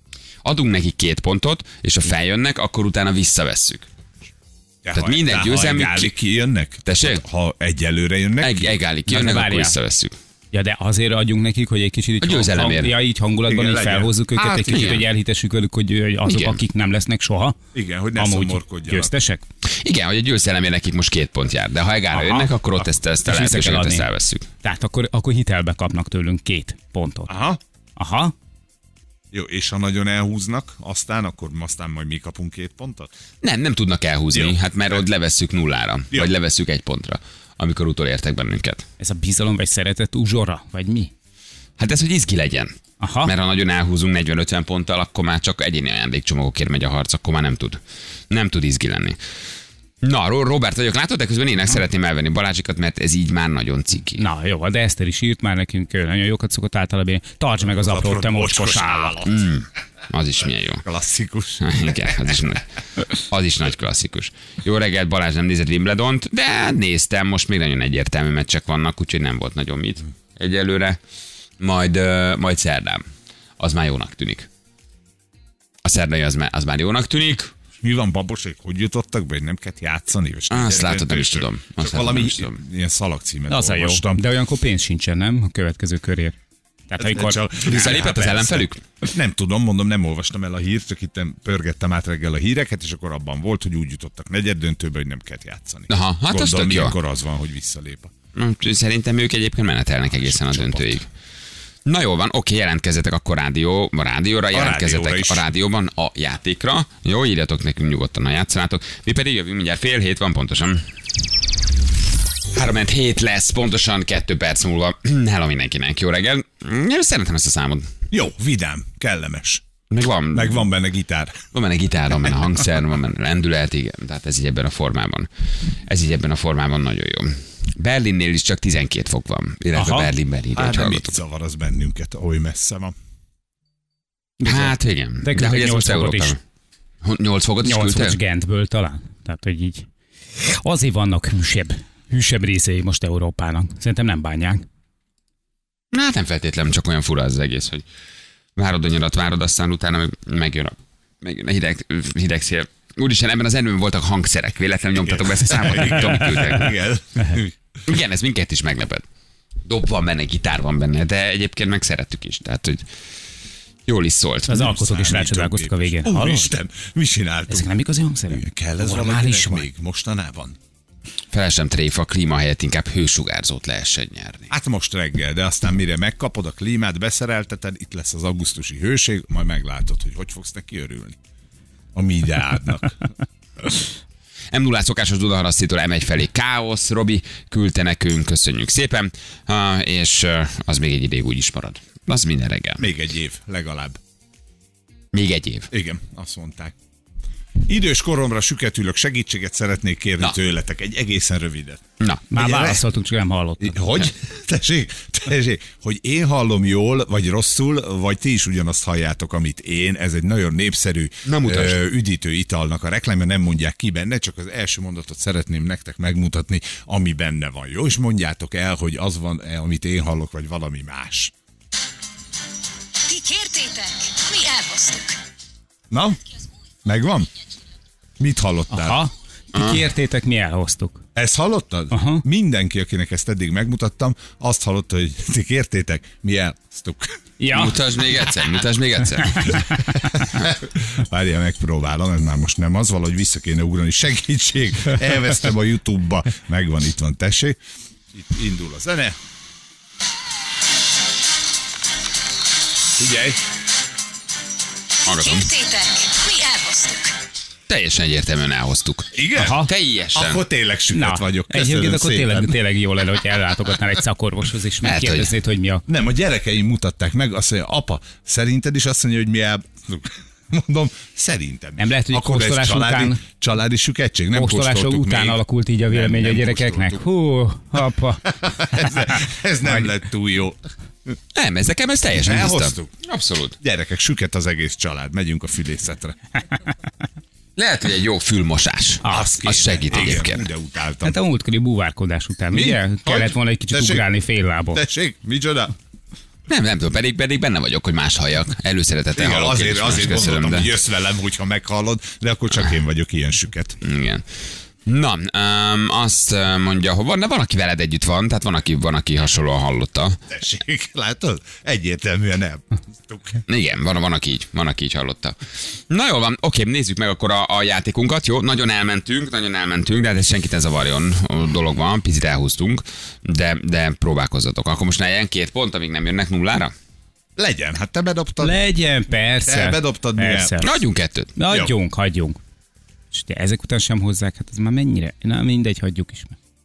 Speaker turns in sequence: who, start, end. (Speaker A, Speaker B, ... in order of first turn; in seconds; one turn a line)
Speaker A: 0.5-3.9
Speaker B: 4.8-8.8
Speaker A: 4.9-6.2
Speaker A: 6.9-7.2
Speaker A: 8.4-10.2
Speaker C: 9.1-9.8
Speaker C: 10.5-17.6
Speaker A: 12.2-13.0
Speaker B: 13.5-15.1
Speaker A: 14.7-15.1
Speaker A: 16.2-16.6
Speaker B: 17.7-19.1
Speaker C: 18.1-19.4
Speaker A: 19.7-24.5
Speaker C: 22.1-22.5
Speaker C: 23.2-24.1
Speaker C: 24.6-27.3
Speaker B: 27.3-27.6
Speaker C: 28.0-28.3
Speaker B: 29.3-33.1
Speaker A: 33.4-38.8
Speaker B: 34.3-35.1
Speaker C: 39.0-41.1
Speaker A: 41.8-49.2
Speaker C: 43.0-43.3
Speaker A: 50.0-54.2
Speaker C: 54.2-59.2
Speaker B: 57.6-59.4
Speaker A: 59.2-60.9
Speaker B: 60.8-62.1
Speaker A: 61.6-71.0
Speaker A: 71.6-73.0
Speaker A: 73.6-74.5
Speaker A: 75.8-77.5
Speaker B: 77.8-84.3
Speaker A: 80.5-82.6
Speaker C: 83.5-86.4
Speaker C: 86.9-87.7
Speaker B: 87.0-98.1
Speaker A: 87.7-88.8
Speaker A: 95.9-97.0
Speaker A: 98.3-101.1
Speaker B: 100.1-101.1
Speaker A: 101.9-110.8
Speaker B: 104.5-105.5
Speaker A: 112.5-117.9
Speaker B: 118.1-119.6
Speaker A: 119.9-120.6
Speaker B: 120.3-121.5
Speaker A: 121.5-131.2
Speaker C: 129.8-130.1
Speaker B: 130.5-132.9
Speaker C: 134.4-136.3
Speaker A: 134.4-136.4
Speaker A: 137.0-138.2
Speaker C: 137.6-139.9
Speaker C: 140.4-144.6
Speaker A: 145.9-147.8
Speaker A: 148.6-156.8
Speaker B: 155.0-157.6
Speaker A: 157.9-159.0
Speaker A: 159.7-162.9
Speaker A: 163.9-164.6
Speaker C: 164.5-166.5
Speaker B: 164.6-167.7
Speaker C: 167.5-169.7
Speaker B: 168.3-170.6
Speaker A: 171.3-174.5
Speaker B: 174.5-181.2
Speaker B: 181.9-183.1
Speaker A: 184.5-192.9
Speaker B: 192.8-194.0
Speaker A: 195.1-195.7
Speaker B: 195.7-196.7
Speaker B: 197.7-201.8
Speaker A: 202.0-202.3
Speaker C: 202.3-204.0
Speaker B: 202.3-202.8
Speaker B: 203.6-221.3
Speaker A: 211.3-211.8
Speaker D: 223.1-225.2
Speaker B: 225.9-226.2
Speaker B: 226.8-227.3
Speaker B: 228.2-229.1
Speaker C: 228.7-231.0
Speaker A: 229.5-229.8
Speaker B: 231.2-237.2
Speaker C: 231.9-232.2
Speaker C: 237.4-237.8
Speaker A: 237.5-239.7
Speaker B: 239.9-247.6
Speaker B: 248.1-249.2
Speaker B: 253.0-253.4
Speaker A: 255.1-255.7
Speaker D: 255.2-257.2
Speaker A: 257.7-260.4
Speaker B: 259.1-259.6
Speaker C: 259.4-259.7
Speaker B: 260.1-262.6
Speaker C: 260.9-265.9
Speaker A: 264.8-265.3
Speaker B: 265.9-277.0
Speaker C: 271.8-273.2
Speaker C: 274.3-278.3
Speaker B: 278.3-280.6
Speaker A: 281.4-283.6
Speaker B: 282.1-282.9
Speaker B: 283.6-286.2
Speaker A: 287.6-290.5
Speaker C: 289.0-289.3
Speaker B: 289.1-291.2
Speaker C: 291.0-294.8
Speaker B: 292.5-294.1
Speaker B: 294.7-295.7
Speaker A: 296.5-300.7
Speaker B: 299.1-303.8
Speaker A: 303.8-304.2
Speaker A: 304.9-310.2
Speaker B: 310.3-313.4
Speaker A: 313.5-326.7
Speaker B: 327.4-328.6
Speaker C: 328.4-330.8
Speaker B: 329.4-330.6
Speaker A: 330.6-331.3
Speaker C: 331.4-332.4
Speaker B: 331.5-331.7
Speaker C: 333.1-336.4